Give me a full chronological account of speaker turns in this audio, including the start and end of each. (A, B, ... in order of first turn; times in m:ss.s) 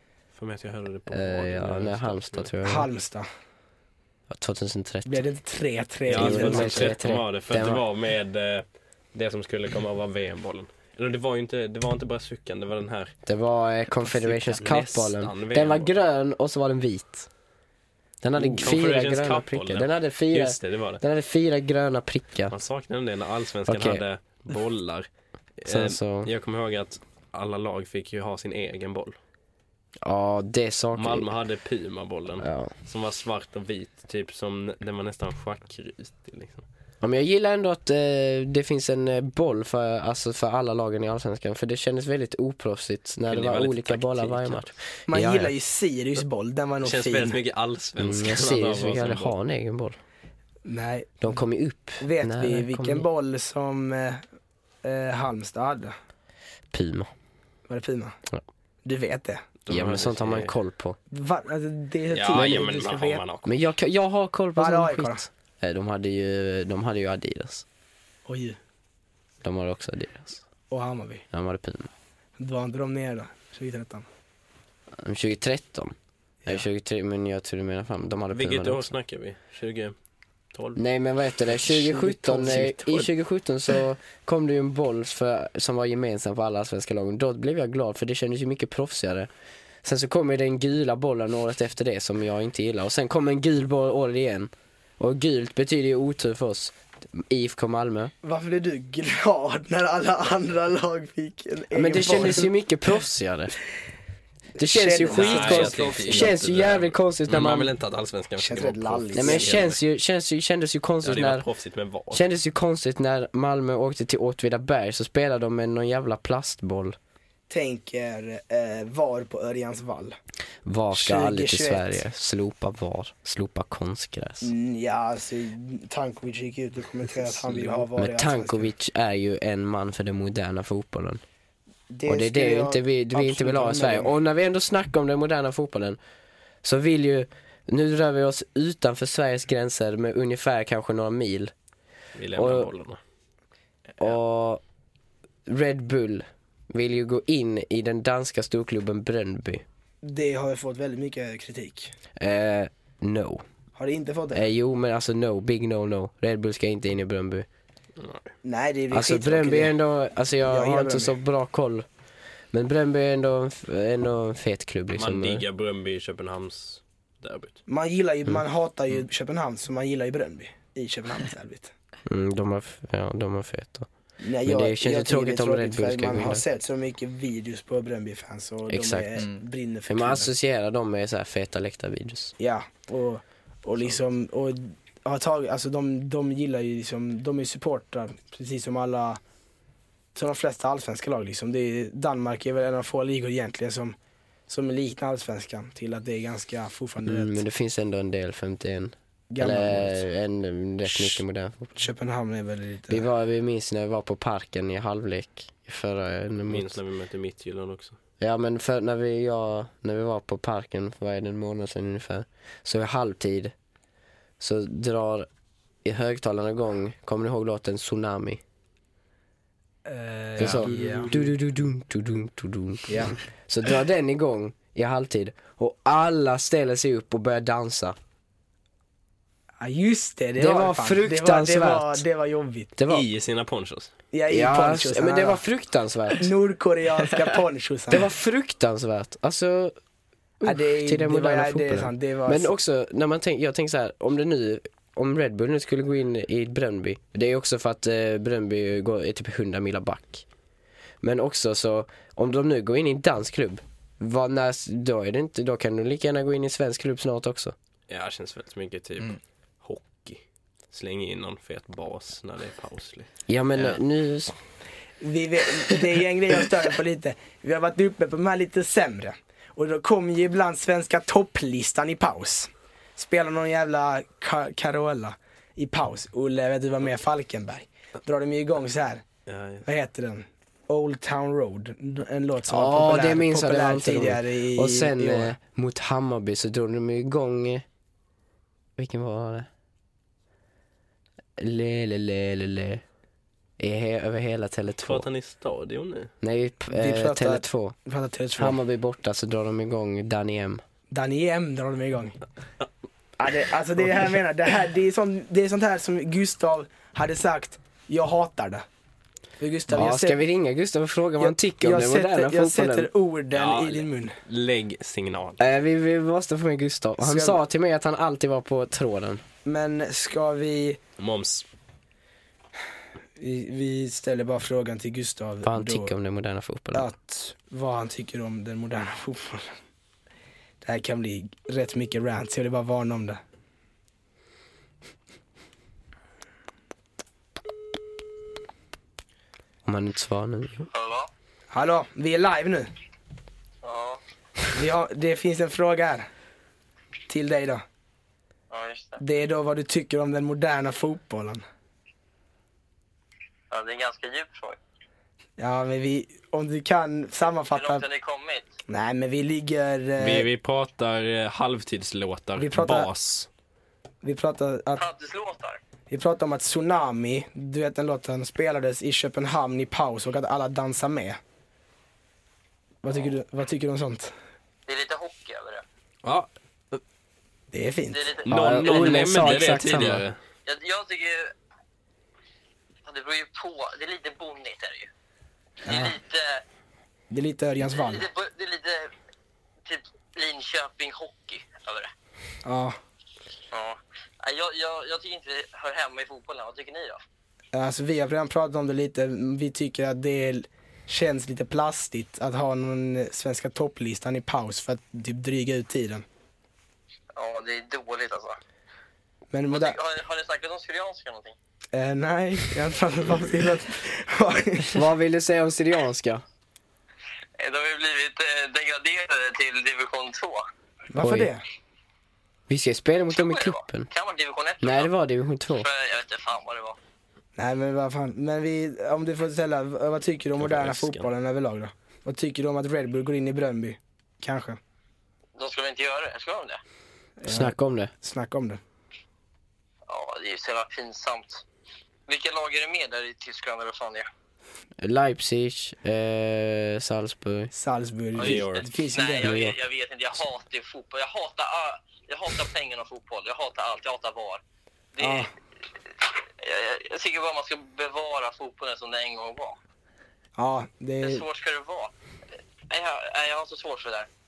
0:00.3-0:02.5 A
0:01.1-0:02.9 B
0:02.6-0:03.3 C
0:04.3-0:05.2 B
0:05.0-0:07.0 C
0:06.1-0:13.1 A
0:06.1-0:07.8 B
0:13.2-0:17.3 B
0:13.9-0:16.0 A
0:18.2-0:22.5 B
0:18.4-0:21.0 A
0:22.5-0:25.1 A
0:23.7-0:24.0 B
0:25.6-0:29.2 A
0:25.7-0:26.3 B
0:30.0-0:31.3 B
0:30.9-0:36.6 A
0:32.4-0:32.7 B
0:37.0-0:45.5 B
0:43.3-0:44.7 A
0:45.1-0:47.4 C
0:46.8-0:49.3 A
0:48.0-0:50.0 B
0:50.6-0:51.4 C
0:51.2-0:53.0 B
0:52.0-0:54.2 C
0:54.8-0:55.9 C
0:56.7-0:57.1 B
0:57.7-0:58.2 C
0:58.8-0:59.4 C
0:59.6-1:00.5 A
0:59.7-1:01.0 B
1:01.1-1:03.2 C
1:02.1-1:03.5 A
1:02.3-1:02.6 B
1:03.4-1:07.6 B
1:04.6-1:05.2 C
1:08.3-1:08.6 C
1:09.4-1:10.4 B
1:10.7-1:11.2 C
1:11.3-1:11.9 B
1:12.4-1:14.0 C
1:15.0-1:15.9 B
1:16.4-1:18.9 B
1:18.3-1:19.9 A
1:20.5-1:20.8 A
1:20.8-1:29.3 B
1:21.5-1:23.1 C
1:29.8-1:38.1 B
1:38.2-1:42.5 C
1:41.7-1:43.5 B
1:44.6-1:46.4 C
1:44.6-1:47.7 B
1:45.1-1:49.8 A
1:48.4-1:49.6 C
1:49.1-1:51.4 B
1:51.0-1:52.2 A
1:52.1-1:57.0 B
1:57.5-2:00.2 C
2:00.6-2:04.5 B
2:00.9-2:02.0 C
2:04.4-2:08.7 C
2:07.9-2:11.2 B
2:11.9-2:14.1 C
2:12.1-2:16.0 B
2:16.6-2:21.5 B
2:22.2-2:23.0 A
2:22.4-2:22.7 B
2:24.0-2:24.6 B
2:25.5-2:29.6 B
2:30.0-2:31.9 C
2:32.2-2:33.4 B
2:33.8-2:34.4 C
2:34.3-2:37.5 B
2:38.0-2:38.3 A
2:38.4-2:39.8 C
2:38.9-2:41.8 B
2:40.4-2:41.2 C
2:42.5-2:45.4 B
2:44.9-2:47.6 A
2:47.7-2:51.7 C
2:52.0-2:53.9 B
2:54.2-3:00.3 C
2:54.4-2:56.4 B
2:58.7-2:59.2 B
2:59.9-3:02.3 B
3:02.4-3:09.2 C
3:10.1-3:13.9 C
3:14.5-3:17.4 C
3:17.0-3:21.7 B
3:19.3-3:20.1 C
3:20.8-3:21.2 C
3:21.8-3:23.0 C
3:22.9-3:26.8 B
3:26.5-3:28.0 A
3:28.2-3:33.5 B
3:34.4-3:35.3 B
3:35.8-3:38.4 B
3:39.8-3:41.2 C
3:40.4-3:48.0 B
3:40.7-3:41.0 A
3:42.9-3:43.2 C
3:49.6-3:52.7 C
3:50.4-3:52.0 B
3:52.8-3:53.1 B
3:52.9-3:53.9 A
3:54.1-3:55.4 C
3:54.3-3:56.3 B
3:56.2-3:58.1 C
3:57.9-3:59.7 B
4:00.4-4:10.2 B
4:00.4-4:02.5 C
4:11.0-4:17.5 B
4:17.9-4:23.8 A
4:23.3-4:24.3 B
4:25.0-4:39.0 C
4:39.3-4:39.6 A
4:39.6-4:45.3 C
4:42.5-4:47.6 B
4:48.8-4:49.5 B
4:51.4-4:52.8 B
4:53.6-4:55.1 B
4:54.8-4:56.1 A
4:56.2-4:57.8 B
4:56.7-4:58.6 C
4:58.4-5:00.6 B
5:00.9-5:02.2 C
5:03.2-5:08.6 C
5:09.4-5:10.2 C
5:09.7-5:12.9 B
5:11.2-5:14.1 C
5:13.3-5:15.4 A
5:15.4-5:19.2 B
5:17.0-5:17.4 C
5:19.4-5:20.8 C
5:21.0-5:21.4 A
5:23.2-5:25.9 C
5:25.4-5:26.9 B
5:26.7-5:29.5 C
5:30.6-5:33.2 C
5:39.6-5:40.7 B
5:40.7-5:41.1 D
5:41.5-5:42.7 C
5:43.6-5:44.0 D
5:44.5-5:46.1 C
5:47.1-5:47.6 C
5:48.5-5:49.0 D
5:49.0-5:51.4 C
5:53.5-5:54.6 D
5:55.4-5:57.8 C
5:57.5-5:58.5 D
5:58.7-6:00.3 C
6:00.0-6:03.3 A
6:02.4-6:02.9 C
6:04.0-6:04.8 C
6:04.8-6:05.6 D
6:05.9-6:11.2 C
6:12.8-6:14.1 C
6:14.7-6:15.6 D
6:16.0-6:16.8 A
6:17.5-6:18.2 C
6:17.9-6:19.3 D
6:18.2-6:20.2 A
6:18.3-6:20.0 B
6:20.4-6:21.3 D
6:22.8-6:24.9 D
6:25.6-6:26.4 D
6:25.6-6:26.0 C
6:27.1-6:28.1 C
6:27.7-6:28.9 D
6:29.6-6:31.9 D
6:32.4-6:32.8 C
6:33.5-6:37.0 D
6:37.5-6:46.0 C
6:47.1-6:48.4 D
6:49.3-6:49.8 C
6:49.5-6:51.3 D
6:51.7-6:54.8 C
6:54.7-6:56.2 B
6:57.4-7:00.5 D
7:00.9-7:01.4 C
7:01.0-7:01.3 B
7:02.5-7:03.9 B
7:03.1-7:04.9 D
7:04.6-7:05.7 B
7:05.5-7:06.8 D
7:07.4-7:14.6 C
7:10.4-7:11.1 A
7:15.4-7:16.6 D
7:17.2-7:18.6 C
7:17.3-7:17.9 B
7:19.9-7:21.4 D
7:22.1-7:24.1 D
7:24.8-7:27.5 B
7:27.5-7:29.5 C
7:28.2-7:28.6 A
7:28.2-7:34.4 D
7:35.0-7:35.3 D
7:35.0-7:35.3 C
7:36.0-7:39.6 D
7:40.4-7:41.2 C
7:41.0-7:41.9 D
7:42.7-7:44.1 D